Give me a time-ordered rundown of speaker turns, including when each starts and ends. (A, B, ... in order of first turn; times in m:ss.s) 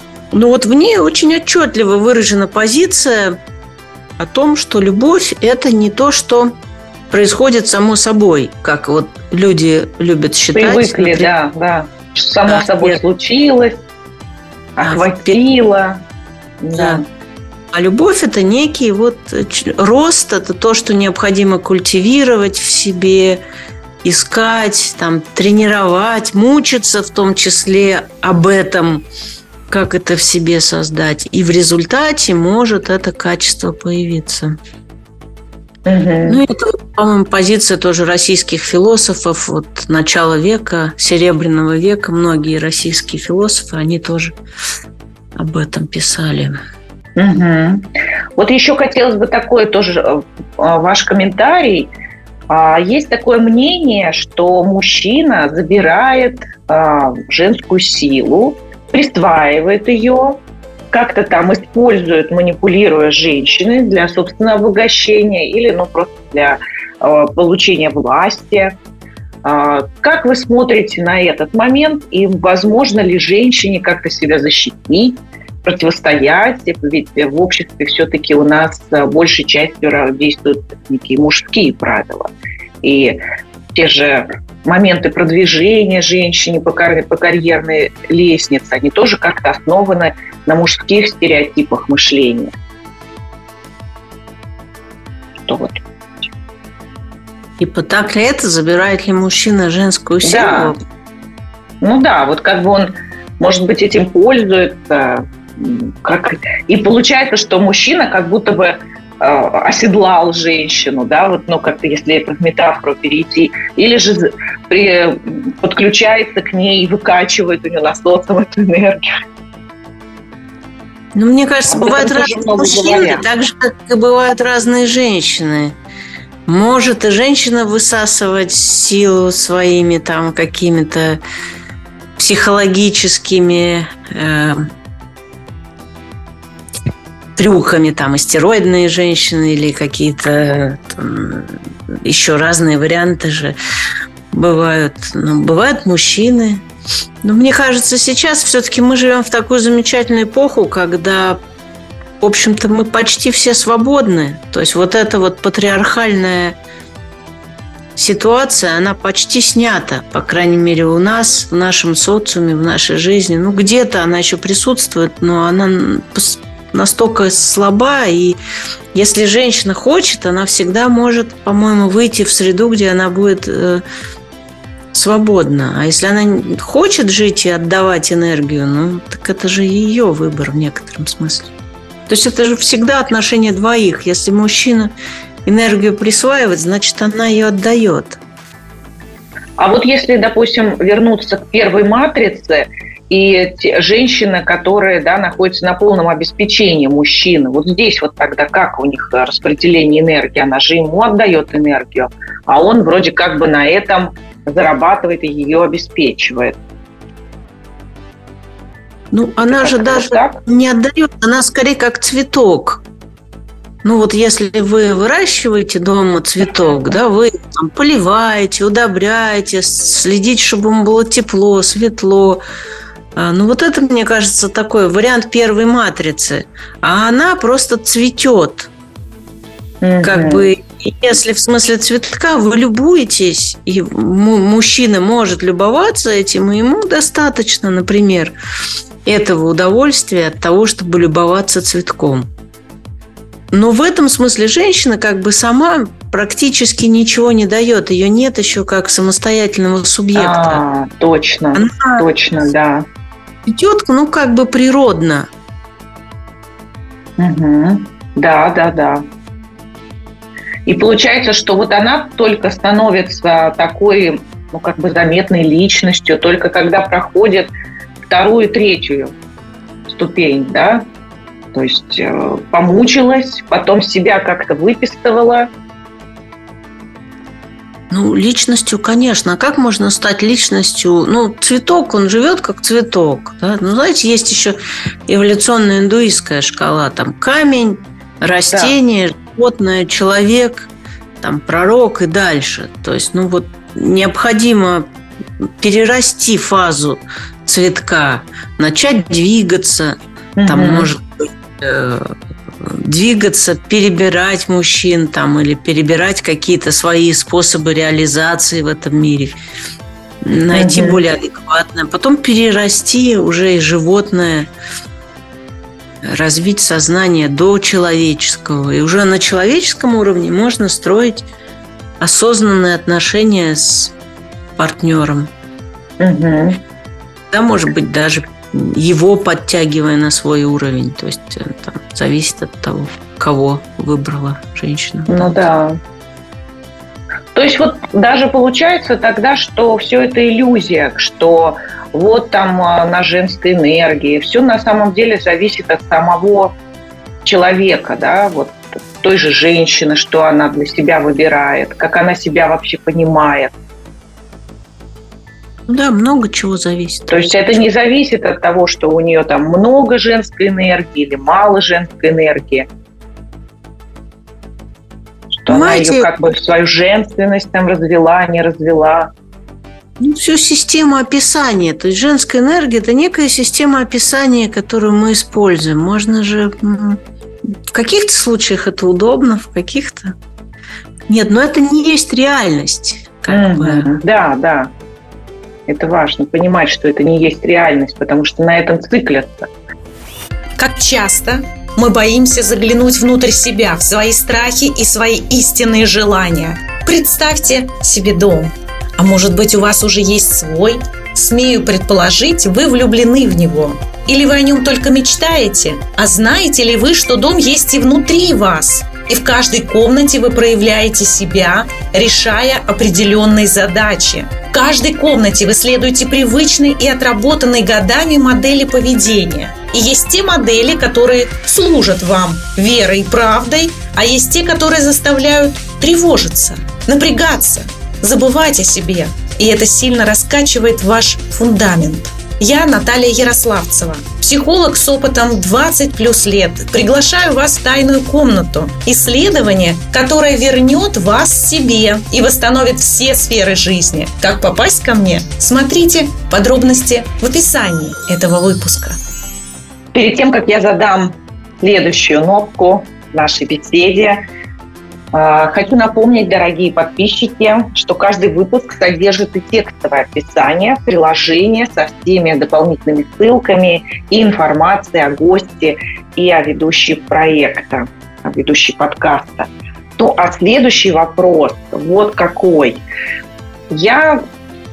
0:00.3-0:03.4 A
0:04.2-0:06.6 A
0:07.1-0:11.3 A
0:10.5-0:13.8 B
0:12.5-0:13.0 A
0:14.8-0:16.0 B
0:14.8-0:15.4 A
0:16.6-0:17.0 B
0:16.8-0:17.0 A
0:17.7-0:23.4 A
0:24.0-0:29.0 A
0:29.7-0:34.6 A
0:35.9-0:36.4 B
0:36.3-0:44.4 A
0:45.4-0:46.6 A
0:47.2-0:51.9 B
0:52.5-1:00.4 B
1:00.9-1:08.8 B
1:09.4-1:22.3 B
1:22.8-1:23.2 B
1:23.7-1:32.5 B
1:35.5-1:36.3 B
1:37.6-1:40.8 A
1:40.2-1:40.8 B
1:41.8-1:59.0 B
2:01.2-2:05.8 A
2:01.7-2:03.2 B
2:06.5-2:11.2 A
2:12.2-2:14.7 A
2:17.4-2:23.6 A
2:24.3-2:26.6 A
2:27.2-2:31.4 A
2:32.2-2:36.6 A
2:38.0-2:48.4 A
2:48.9-2:53.8 A
2:54.9-3:01.5 A
3:02.1-3:04.9 A
3:05.4-3:08.2 A
3:09.6-3:26.6 B
3:29.1-3:32.8 A
3:29.5-3:30.4 B
3:33.8-3:42.4 A
3:43.2-3:48.7 A
3:49.8-3:50.5 B
3:50.0-3:58.3 A
3:59.0-4:02.3 A
4:03.5-4:10.6 A
4:10.2-4:12.9 B
4:11.6-4:12.1 A
4:13.5-4:15.3 A
4:17.2-4:19.0 B
4:20.7-4:27.5 B
4:28.1-4:29.1 B
4:29.9-4:30.9 B
4:31.5-4:35.5 B
4:37.9-4:50.7 A
4:51.2-4:54.9 A
4:55.6-5:09.3 A
5:00.4-5:00.9 B
5:10.2-5:14.5 A
5:10.5-5:11.0 B
5:16.0-5:21.3 A
5:22.0-5:24.0 A
5:24.6-5:25.3 A
5:26.0-5:26.6 B
5:27.3-5:35.3 A
5:35.1-5:35.8 B
5:37.3-5:46.6 B
5:47.2-5:53.5 B
5:55.7-5:57.7 A
5:57.1-6:02.7 B
6:05.4-6:09.1 B
6:05.5-6:06.1 A
6:10.0-6:17.0 A
6:17.7-6:20.2 A
6:21.1-6:24.0 A
6:23.3-6:24.7 B
6:25.7-6:29.5 B
6:30.6-7:29.0 C
7:29.9-7:34.2 B
7:35.1-7:52.8 B
7:53.7-7:54.2 B